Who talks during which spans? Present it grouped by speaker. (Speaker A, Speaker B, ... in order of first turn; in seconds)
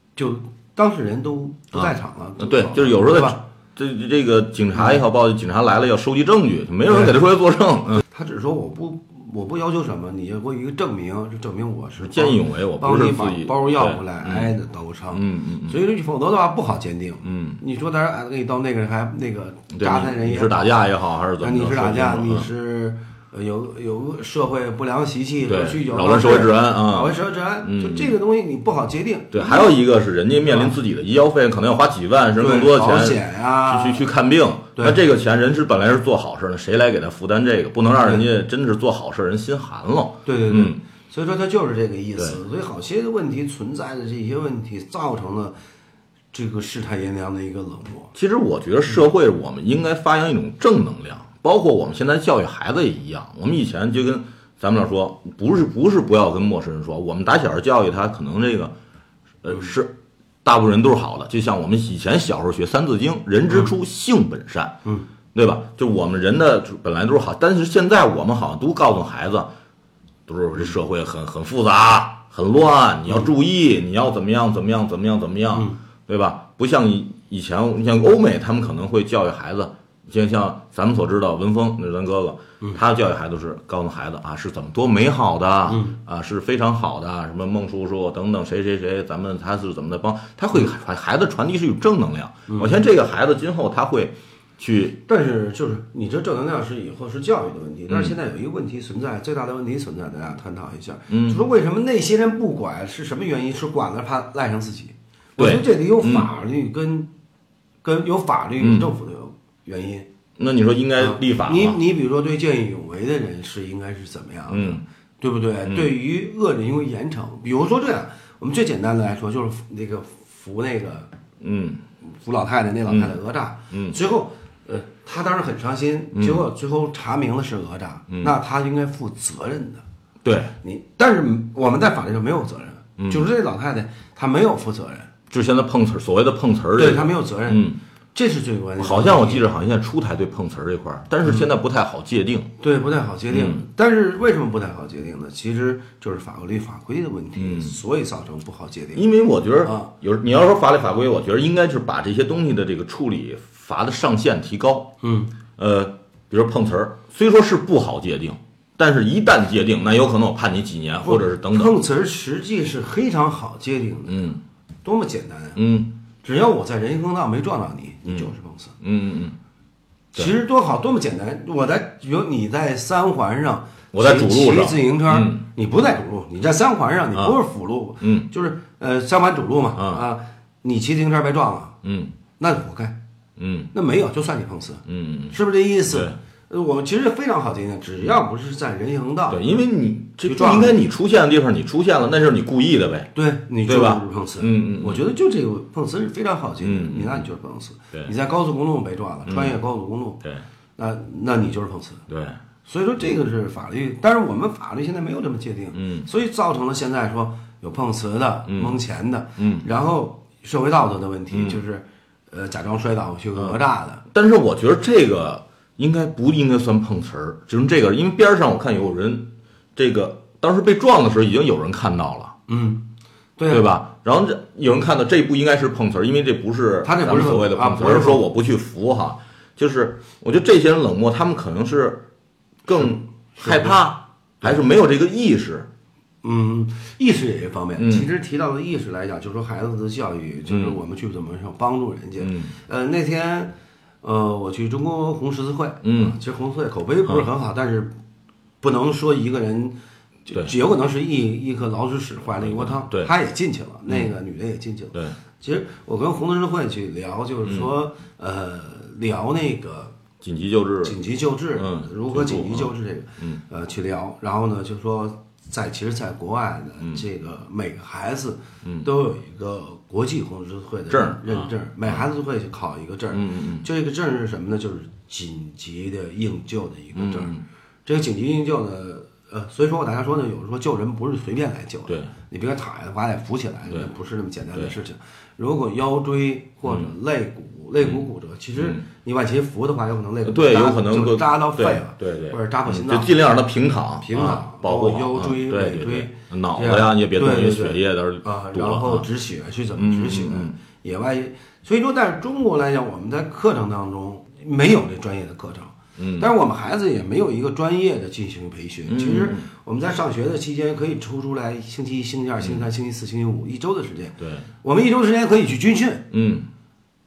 Speaker A: 0.1-3.4, 6.9-7.2, 8.1-20.9, 21.4-29.8, 30.5-30.7, 32.4-34.1, 38.0-38.2, 40.2-45.5, 46.3-48.1, 75.5-75.8, 85.7-86.0, 92.5-92.8, 95.0-107.1, 107.8-110.1, 111.0-121.1, 122.1-129.8, 130.6-135.1, 136.8-139.5, 142.6-149.1, 149.6-149.9, 155.0-155.3, 161.0-165.6, 166.2-168.8, 170.1-181.8, 182.4-183.0, 183.7-189.5, 190.2-190.8, 193.1-200.2, 200.8-202.0, 202.7-214.0, 222.5-222.8, 223.4-223.7, 226.8-228.2, 232.8-233.8, 236.2-247.9, 248.6-259.9, 260.8-293.2, 294.0-316.1
Speaker B: 1.7-8.0, 12.0-14.5, 15.1-15.8, 17.2-17.6, 19.7-22.5, 25.5-28.1, 29.3-40.8, 48.1-58.7, 59.4-64.7, 65.3-69.5, 70.3-95.0, 97.9-98.1, 101.1-101.4, 105.4-106.3, 108.6-108.9, 110.4-111.8, 114.5-114.8, 115.6-115.9, 121.4-121.8, 122.9-123.2, 123.7-124.0, 126.1-126.4, 128.1-128.4, 130.2-130.5, 133.0-133.3, 135.3-137.8, 138.8-142.5, 143.3-143.6, 147.4-147.8, 148.9-154.9, 155.6-161.8, 164.1-164.4, 165.6-166.0, 168.8-169.4, 173.9-175.4, 178.0-178.3, 179.8-180.0, 181.8-182.1, 183.4-183.7, 184.9-185.4, 185.9-186.2, 189.3-193.1, 193.6-195.1, 196.6-197.3, 199.2-199.6, 202.1-202.4, 205.8-206.1, 208.5-208.8, 209.4-209.7, 211.3-211.6, 214.1-222.3, 223.5-232.0, 232.7-235.7, 237.8-238.1, 240.5-240.8, 242.2-242.5, 245.8-246.2, 252.4-253.1, 260.2-261.0, 261.6-263.4, 268.6-268.9, 270.9-272.0, 273.1-273.7, 276.9-277.4, 288.5-288.8, 290.2-299.1, 299.8-300.5, 306.0-306.3, 308.9-309.5, 314.2-314.5, 316.1-316.5